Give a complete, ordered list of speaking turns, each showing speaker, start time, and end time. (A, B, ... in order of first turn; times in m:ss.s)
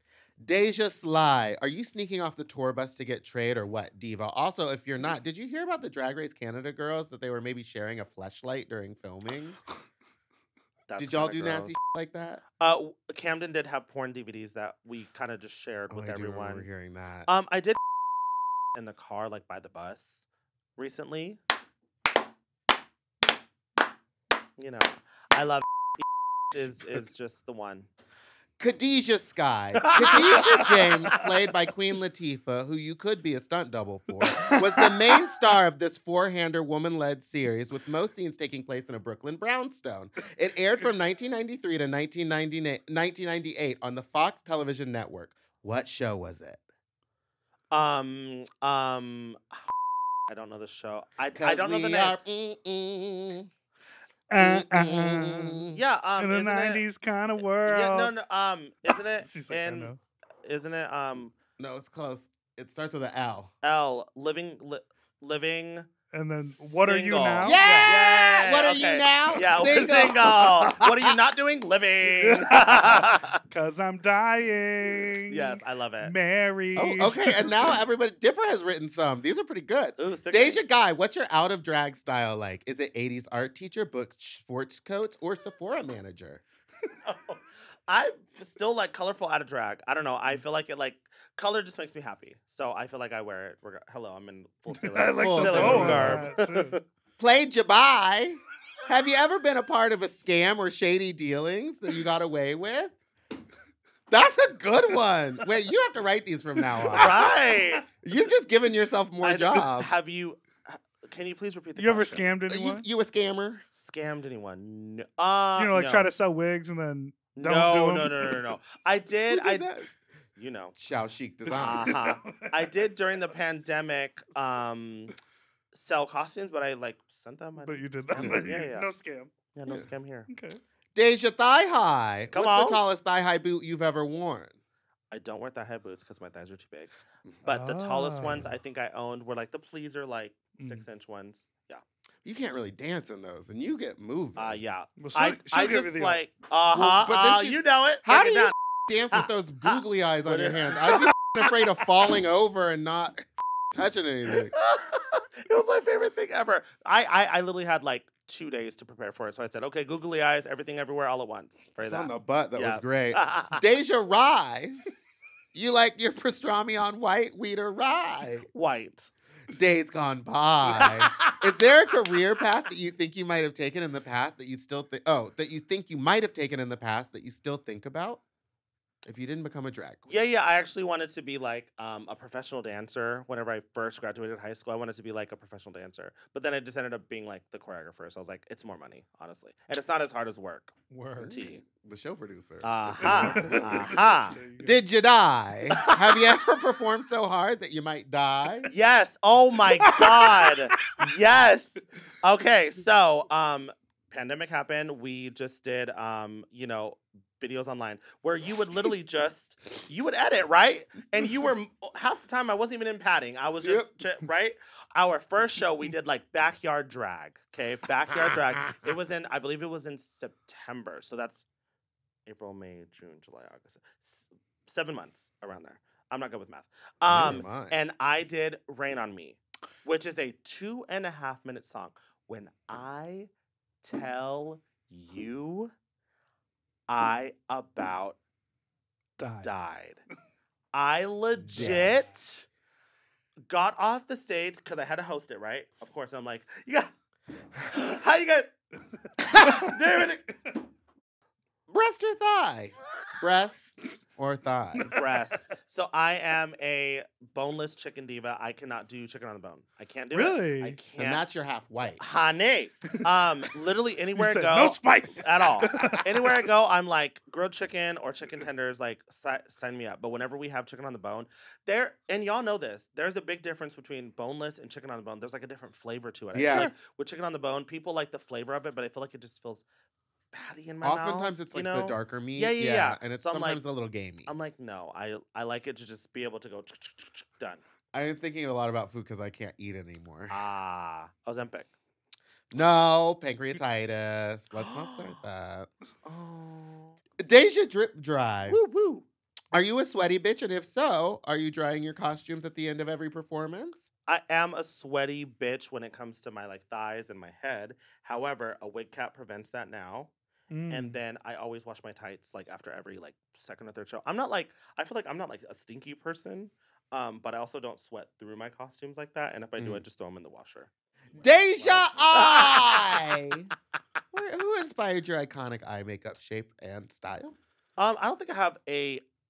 0:00.4-0:09.6 A
0:10.9-0:11.7 B
0:11.0-0:12.4 A
0:12.6-0:16.7 B
0:15.9-0:17.3 A
0:17.3-0:17.8 B
0:18.7-0:20.2 B
0:20.8-0:21.4 B
0:24.6-0:27.9 B
0:28.6-0:46.6 A
0:29.8-0:31.2 B
0:47.7-0:49.6 B
0:50.3-0:52.2 B
0:51.4-0:53.5 A
0:54.3-0:55.6 C
0:54.4-0:55.8 A
0:55.7-0:56.8 B
0:56.2-0:58.1 C
0:57.6-1:01.4 B
0:58.9-1:00.0 C
1:01.6-1:03.5 A
1:03.6-1:13.4 B
1:06.1-1:08.0 C
1:07.4-1:11.2 A
1:12.0-1:17.8 C
1:15.3-1:16.1 B
1:16.8-1:26.4 A
1:20.0-1:20.6 B
1:27.0-1:36.7 B
1:34.7-1:36.8 C
1:35.2-1:36.3 A
1:37.2-1:42.9 A
1:44.1-1:47.3 A
1:46.8-1:47.3 C
1:47.0-1:47.8 B
1:48.0-1:49.9 A
1:49.2-1:52.3 B
1:51.8-1:52.9 C
1:52.5-1:53.6 A
1:53.7-1:56.1 B
1:55.6-1:58.4 C
1:57.4-1:59.7 B
1:59.3-1:59.9 A
2:00.4-2:00.8 B
2:00.8-2:02.0 A
2:01.5-2:02.7 C
2:01.6-2:05.1 B
2:05.7-2:08.9 B
2:07.6-2:09.3 C
2:08.2-2:08.5 A
2:09.5-2:10.3 B
2:10.3-2:10.6 C
2:11.0-2:14.5 A
2:12.3-2:12.8 B
2:15.1-2:16.9 B
2:17.4-2:21.8 B
2:17.5-2:18.5 C
2:20.6-2:20.8 C
2:22.2-2:24.6 A
2:24.4-2:28.5 B
2:25.0-2:26.2 C
2:26.7-2:34.5 A
2:29.1-2:30.9 B
2:34.3-2:43.7 B
2:41.8-2:44.8 A
2:45.5-2:48.5 A
2:48.5-2:49.1 B
2:49.5-2:58.2 A
2:50.7-2:51.4 B
2:59.1-3:00.1 A
3:00.1-3:10.8 B
3:10.9-3:11.4 C
3:11.2-3:14.0 A
3:11.3-3:11.6 B
3:12.6-3:14.4 B
3:13.0-3:14.8 C
3:14.6-3:18.7 A
3:18.7-3:41.4 B
3:33.6-3:33.9 A
3:42.3-3:53.3 B
3:47.1-3:47.8 A
3:53.8-3:55.7 B
3:56.9-3:58.2 B
3:59.2-3:59.5 C
3:59.4-4:00.0 B
4:00.7-4:02.5 B
4:01.4-4:02.0 A
4:03.5-4:06.9 B
4:07.6-4:08.5 B
4:09.3-4:10.4 B
4:11.7-4:14.9 A
4:14.9-4:21.3 B
4:20.1-4:20.8 C
4:21.0-4:22.0 A
4:22.0-4:39.6 B
4:24.2-4:26.0 C
4:36.3-4:36.7 A
4:40.3-4:43.6 B
4:40.8-4:44.3 A
4:44.2-4:47.6 B
4:47.9-4:50.4 A
4:50.3-4:51.7 B
4:52.5-4:55.7 A
4:54.6-4:55.2 B
4:56.0-4:57.0 B
4:57.2-4:58.6 A
4:58.4-4:59.1 B
4:59.5-5:03.9 A
5:04.1-5:10.1 B
5:10.5-5:11.0 C
5:10.7-5:23.3 B
5:19.6-5:19.8 A
5:21.2-5:23.5 A
5:24.1-5:27.4 A
5:27.8-5:29.0 B